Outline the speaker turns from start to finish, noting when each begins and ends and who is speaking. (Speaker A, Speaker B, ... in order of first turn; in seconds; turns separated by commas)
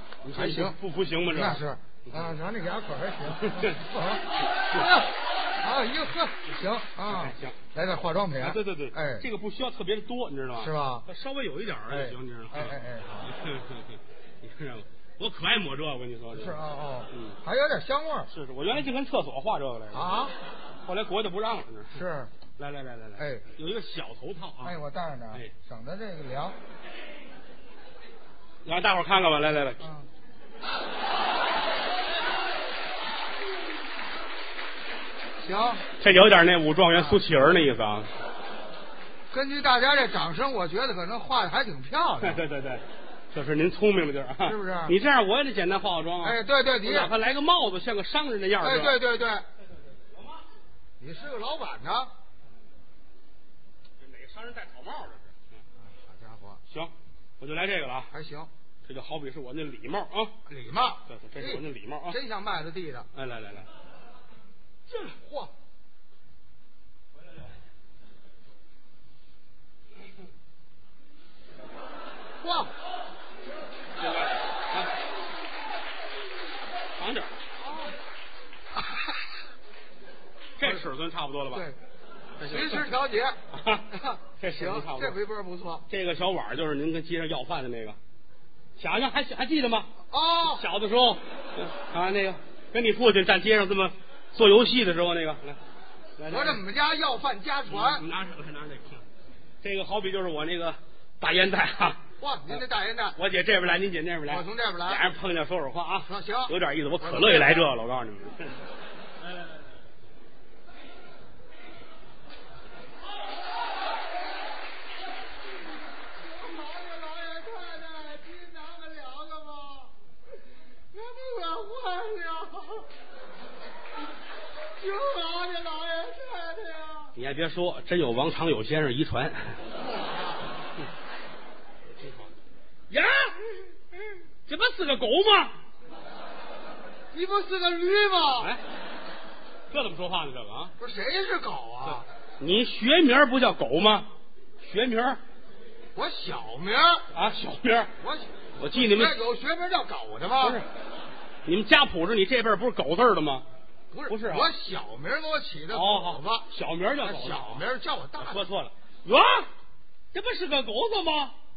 Speaker A: 0.2-2.4, Speaker B: 0.3-0.8, Speaker B: 1.3-9.3, Speaker A: 3.4-3.8, Speaker A: 7.1-7.6, Speaker A: 8.4-17.4, Speaker B: 10.6-11.1, Speaker B: 11.9-13.3, Speaker B: 16.3-18.3, Speaker A: 18.3-20.3, Speaker B: 19.9-20.4, Speaker A: 20.9-22.0, Speaker B: 21.9-22.3, Speaker A: 22.6-24.8, Speaker B: 23.2-23.5, Speaker B: 24.6-26.6, Speaker A: 28.6-29.8, Speaker B: 29.8-30.1, Speaker B: 35.4-35.8, Speaker A: 36.0-38.1, Speaker B: 36.9-37.2, Speaker B: 39.3-42.4, Speaker A: 42.2-49.0, Speaker B: 44.4-45.0, Speaker B: 46.2-47.1, Speaker B: 48.6-49.5, Speaker B: 51.0-52.1, Speaker A: 54.0-55.4, Speaker B: 55.8-56.6, Speaker A: 56.7-58.1, Speaker B: 58.1-58.5, Speaker A: 58.9-60.3, Speaker B: 60.5-63.1, Speaker A: 61.1-62.2, Speaker A: 63.1-63.7, Speaker B: 64.9-65.5, Speaker B: 72.4-72.7, Speaker A: 74.0-74.9, Speaker A: 77.0-77.3, Speaker B: 77.6-77.9, Speaker B: 78.8-79.1, Speaker A: 80.6-81.7, Speaker B: 81.5-81.8, Speaker A: 82.4-82.9, Speaker B: 82.4-83.4, Speaker A: 83.5-83.9, Speaker B: 83.9-85.9, Speaker A: 84.4-85.2, Speaker A: 85.9-88.0, Speaker A: 88.8-95.6, Speaker B: 90.1-90.6, Speaker A: 96.2-96.6, Speaker B: 96.3-98.1, Speaker A: 97.7-99.0, Speaker A: 99.6-102.6, Speaker B: 102.2-103.2, Speaker A: 103.2-108.6, Speaker B: 104.3-105.0, Speaker B: 106.0-107.7, Speaker B: 116.2-119.9, Speaker B: 120.9-122.9, Speaker B: 124.8-127.1, Speaker A: 127.2-129.6, Speaker B: 129.8-130.4, Speaker A: 132.9-133.4, Speaker A: 134.5-135.6, Speaker B: 137.1-138.5, Speaker A: 139.7-140.7, Speaker B: 140.8-142.1, Speaker A: 142.4-144.1, Speaker A: 144.6-145.2, Speaker B: 145.9-147.1, Speaker A: 147.1-147.9, Speaker B: 148.0-150.6, Speaker A: 148.6-149.2, Speaker A: 150.4-150.7, Speaker A: 151.5-153.5, Speaker B: 153.9-156.5, Speaker A: 154.1-154.5, Speaker A: 155.7-157.7, Speaker B: 157.0-158.4, Speaker A: 158.2-159.5, Speaker A: 160.1-161.3